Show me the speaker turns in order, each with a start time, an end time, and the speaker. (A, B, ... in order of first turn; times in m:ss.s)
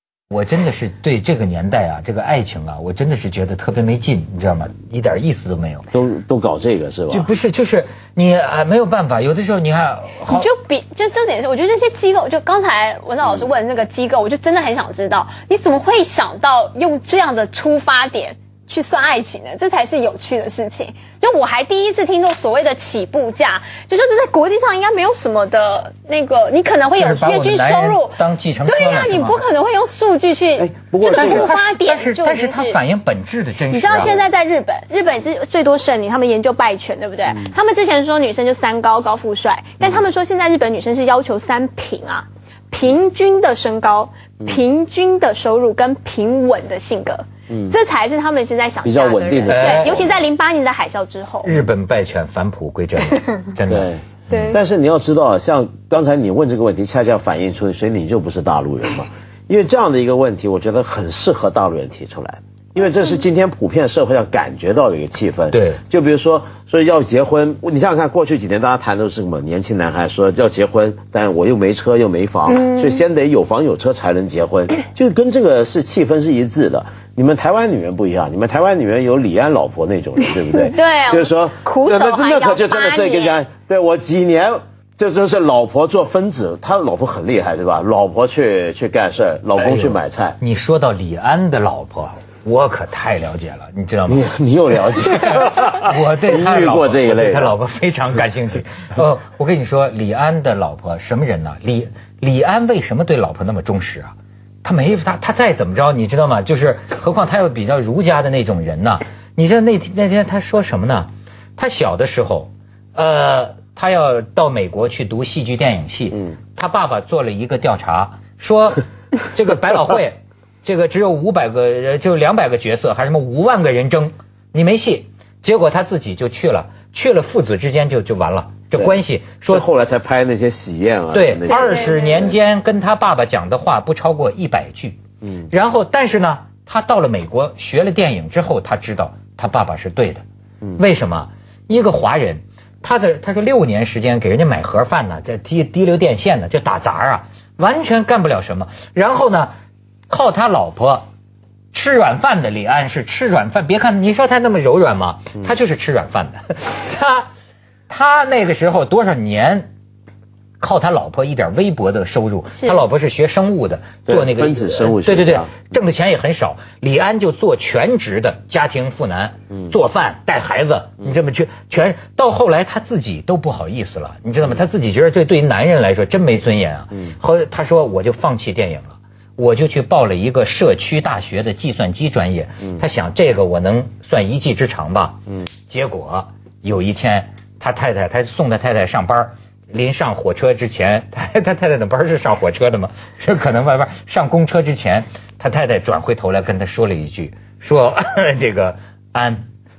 0:00.3-0:05.9 A
0:05.9-0:07.3 B
0:07.1-0:10.5 A
0:10.3-0:32.8 C
0:27.0-0:29.5 A
0:30.6-0:31.5 B
0:31.0-0:34.1 A
0:33.7-0:51.5 C
0:39.8-0:40.1 B
0:47.5-0:47.8 B
0:48.8-0:50.2 B
0:49.5-0:49.9 A
0:51.4-0:54.5 A
0:53.7-1:30.4 B
1:05.5-1:05.8 A
1:12.5-1:13.0 C
1:20.5-1:23.4 C
1:29.6-1:34.2 A
1:34.1-1:37.5 B
1:35.0-1:44.1 A
1:44.6-2:09.7 A
2:08.8-2:12.1 B
2:11.1-2:15.0 A
2:11.5-2:12.3 C
2:15.2-2:15.5 B
2:15.5-2:20.2 A
2:20.8-2:29.5 A
2:30.1-2:31.0 A
2:31.7-2:37.3 A
2:37.9-2:39.7 A
2:40.6-3:19.5 A
2:44.1-2:45.5 B